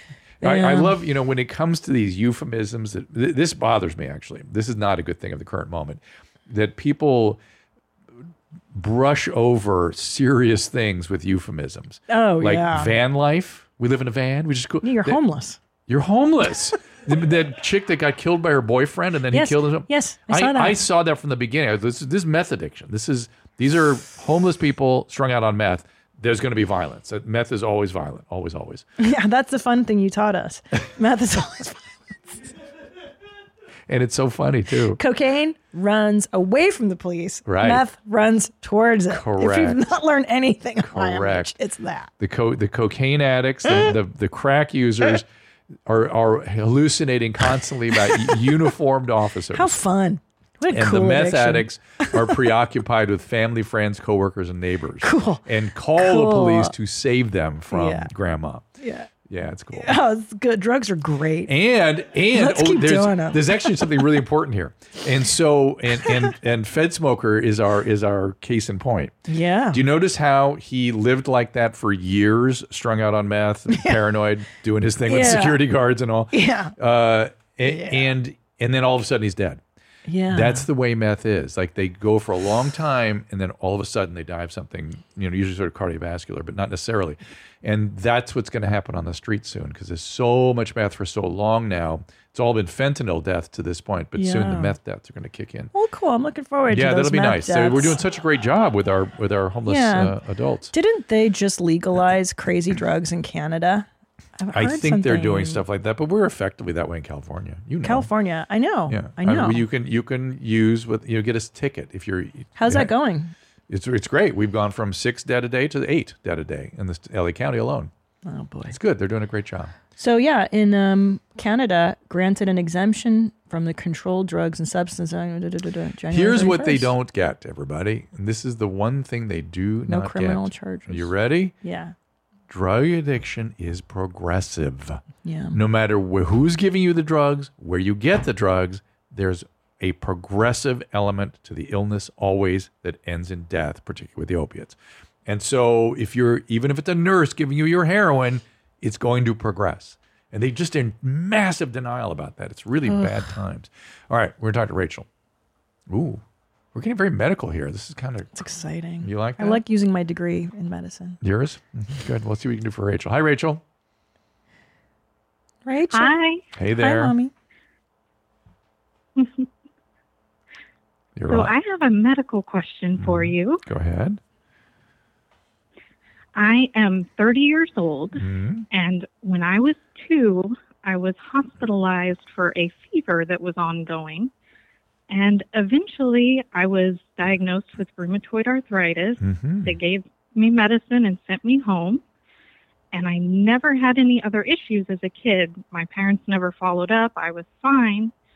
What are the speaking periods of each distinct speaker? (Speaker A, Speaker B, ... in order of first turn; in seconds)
Speaker A: 0.4-1.0, 12.1-13.0, 14.8-15.6, 19.3-20.8, 29.0-32.3, 34.9-42.1, 48.1-48.4, 49.5-52.4, 55.0-55.4, 56.0-56.7, 57.7-58.1, 58.8-59.1, 59.7-61.5, 62.3-64.1, 69.3-69.8, 73.7-74.0, 75.0-75.6, 76.3-76.7, 77.6-78.1, 80.1-80.7, 94.1-94.8, 95.7-98.0, 99.7-100.2, 100.7-105.6, 107.8-109.7, 112.5-113.3, 118.2-118.8, 120.0-126.9, 129.9-131.9, 135.2-135.6, 152.8-153.3, 158.3-161.2, 165.6-166.1, 166.7-167.3
Speaker B: 0.4-7.4, 8.7-15.2, 15.9-28.8, 33.9-35.0, 37.5-37.8, 39.1-39.8, 40.8-41.5, 42.2-45.2, 45.9-49.8, 50.7-58.6, 59.3-60.0, 61.5-69.2, 69.7-79.6, 80.3-95.7, 96.7-100.7, 104.5-108.1, 108.9-112.9, 113.7-117.9, 118.7-119.7, 126.1-131.5, 132.5-155.1, 155.9-156.2, 156.7-158.3, 159.0-159.6, 161.2-163.6, 166.5-167.1, 171.2-171.5, 173.0-174.2, 178.2-178.7, 189.2-189.8
Speaker C: 165.9-166.4, 169.2-169.4, 171.3-173.6, 176.3-178.2, 178.7-184.3, 185.1-192.0, 192.9-198.1